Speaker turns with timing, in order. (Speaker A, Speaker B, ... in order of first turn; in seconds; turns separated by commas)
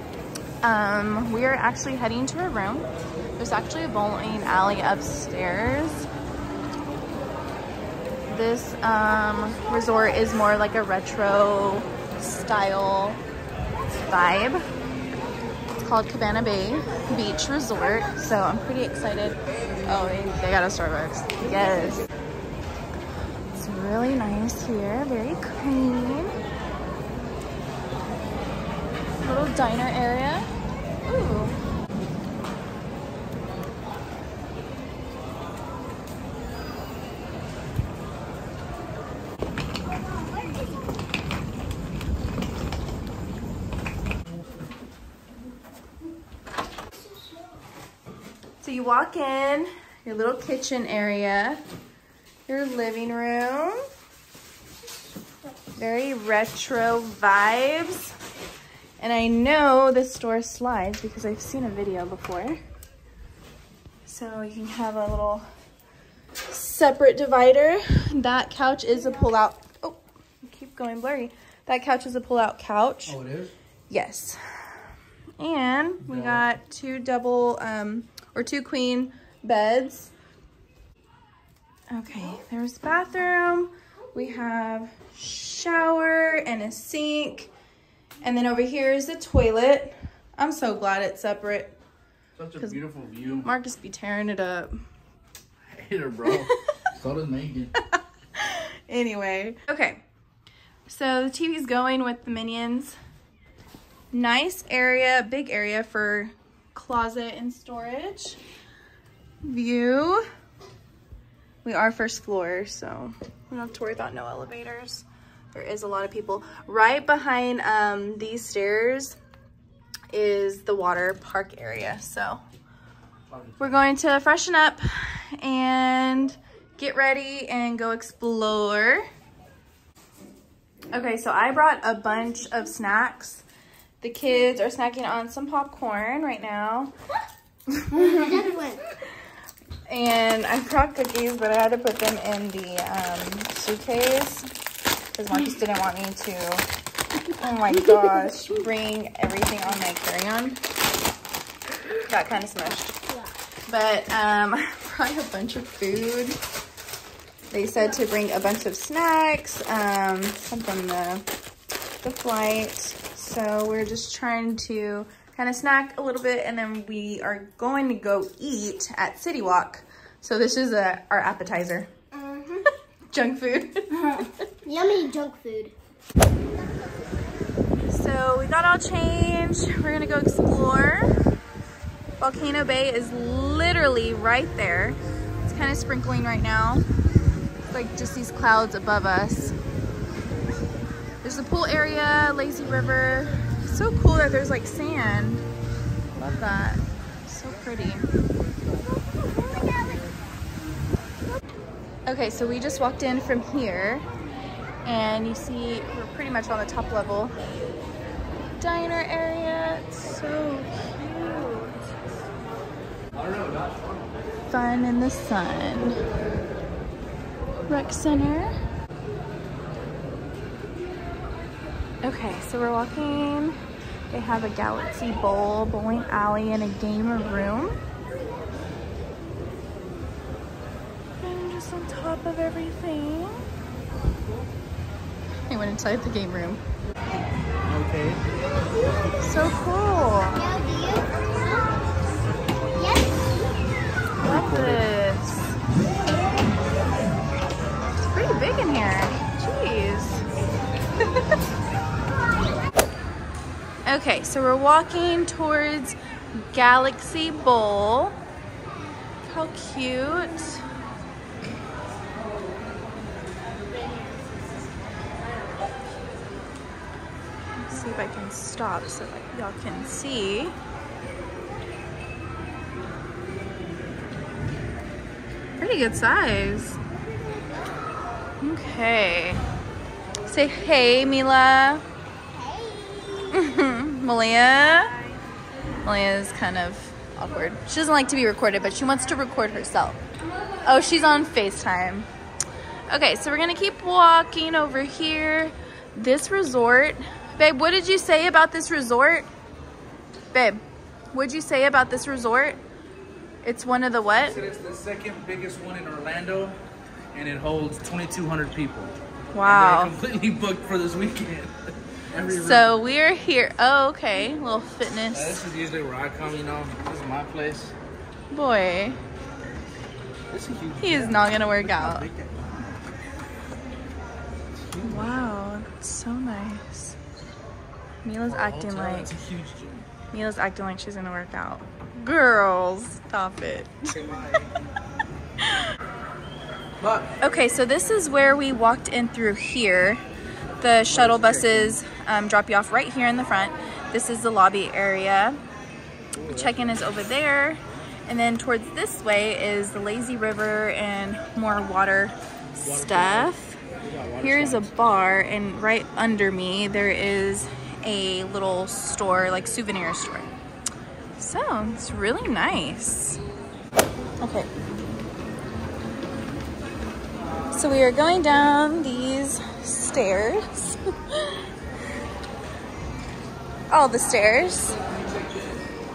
Speaker A: 0.6-6.1, Speaker A: 8.3-13.2, Speaker A: 13.9-14.6, Speaker A: 15.8-22.0, Speaker A: 23.5-26.3, Speaker A: 29.2-30.5, Speaker A: 31.0-31.6, Speaker A: 48.6-51.6, Speaker A: 52.5-53.8, Speaker A: 55.8-58.1, Speaker A: 59.0-62.6, Speaker A: 64.0-65.4, Speaker A: 66.5-73.2, Speaker B: 73.1-73.5, Speaker A: 73.9-74.4, Speaker A: 75.4-80.1, Speaker B: 76.0-76.4, Speaker A: 81.9-87.5, Speaker A: 88.2-91.8, Speaker B: 92.3-93.5, Speaker A: 93.4-94.8, Speaker B: 95.7-97.7, Speaker A: 97.8-100.0, Speaker A: 100.9-103.0, Speaker A: 104.1-108.4, Speaker A: 109.4-110.2, Speaker A: 111.6-119.2, Speaker A: 120.1-122.4, Speaker B: 123.3-123.8, Speaker A: 123.6-129.0, Speaker A: 130.9-133.4, Speaker A: 134.0-136.9, Speaker A: 137.7-138.3, Speaker C: 137.9-138.8, Speaker A: 139.9-144.5, Speaker A: 145.1-146.6, Speaker A: 147.3-150.6, Speaker A: 152.1-152.9, Speaker A: 153.7-156.4, Speaker A: 157.5-161.2, Speaker A: 162.0-171.9, Speaker C: 172.1-172.7, Speaker A: 173.1-173.9, Speaker C: 173.9-175.7, Speaker A: 177.9-181.2, Speaker A: 182.2-186.8, Speaker A: 187.7-189.5, Speaker A: 191.2-195.4, Speaker A: 196.2-198.1, Speaker A: 202.1-204.1, Speaker A: 204.8-207.3, Speaker A: 208.6-211.8, Speaker A: 214.5-216.0, Speaker A: 217.7-218.5, Speaker A: 222.0-223.6, Speaker A: 224.1-227.8, Speaker A: 231.2-233.4, Speaker A: 235.5-236.6, Speaker B: 237.7-238.2, Speaker A: 239.2-240.5, Speaker C: 240.3-241.8, Speaker C: 242.8-243.1, Speaker B: 244.2-244.8, Speaker A: 244.2-245.6, Speaker A: 248.0-250.2, Speaker A: 253.8-255.9, Speaker A: 256.5-258.2, Speaker A: 259.2-260.6, Speaker A: 267.6-270.5, Speaker A: 275.6-276.8, Speaker A: 278.4-279.4, Speaker A: 280.2-281.8, Speaker C: 282.3-283.3, Speaker A: 283.3-284.9, Speaker A: 285.8-290.0, Speaker A: 290.6-292.1, Speaker A: 292.9-299.3, Speaker A: 300.3-300.6, Speaker A: 301.1-302.6, Speaker A: 303.4-304.4, Speaker B: 304.2-306.6, Speaker B: 307.1-312.7, Speaker A: 309.3-309.9, Speaker A: 312.3-315.4, Speaker B: 315.1-317.7, Speaker A: 318.3-319.0, Speaker B: 320.3-322.9, Speaker A: 320.8-322.1, Speaker B: 324.7-325.2, Speaker A: 324.8-326.9, Speaker A: 328.0-329.1, Speaker B: 328.3-329.9, Speaker A: 330.1-334.0, Speaker B: 333.9-334.5, Speaker B: 336.8-337.1, Speaker A: 337.2-340.0, Speaker A: 340.6-345.4, Speaker B: 340.9-341.8, Speaker B: 346.1-347.0, Speaker A: 346.3-353.6, Speaker B: 352.6-354.7, Speaker A: 354.2-360.3, Speaker A: 361.2-363.2, Speaker A: 364.2-364.5, Speaker A: 367.5-371.4, Speaker A: 373.7-374.8, Speaker B: 374.8-375.7